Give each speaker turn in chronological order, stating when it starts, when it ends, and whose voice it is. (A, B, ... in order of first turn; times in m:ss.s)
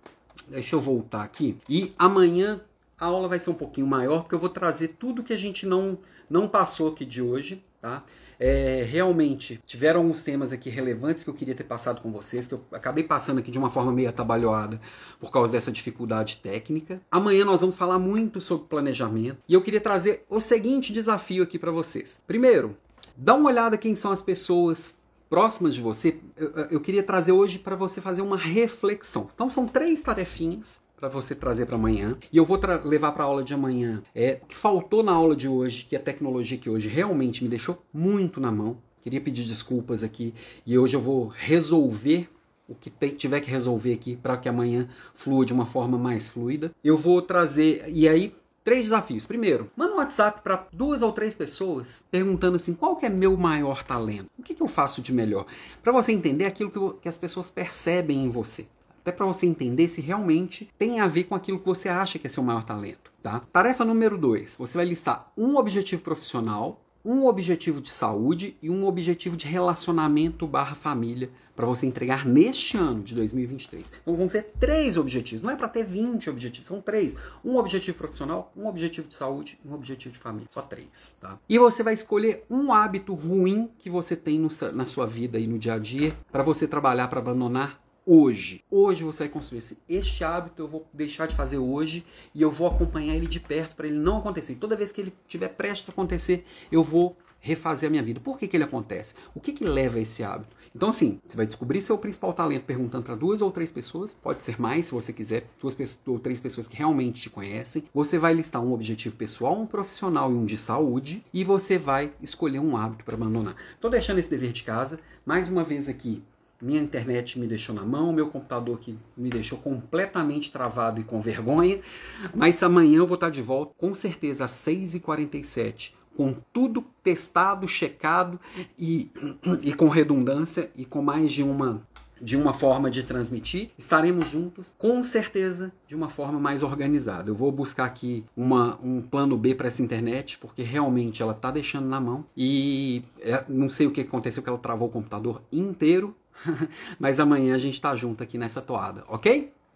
0:00.5-2:01.8 A
2:02.3-2:29.5 A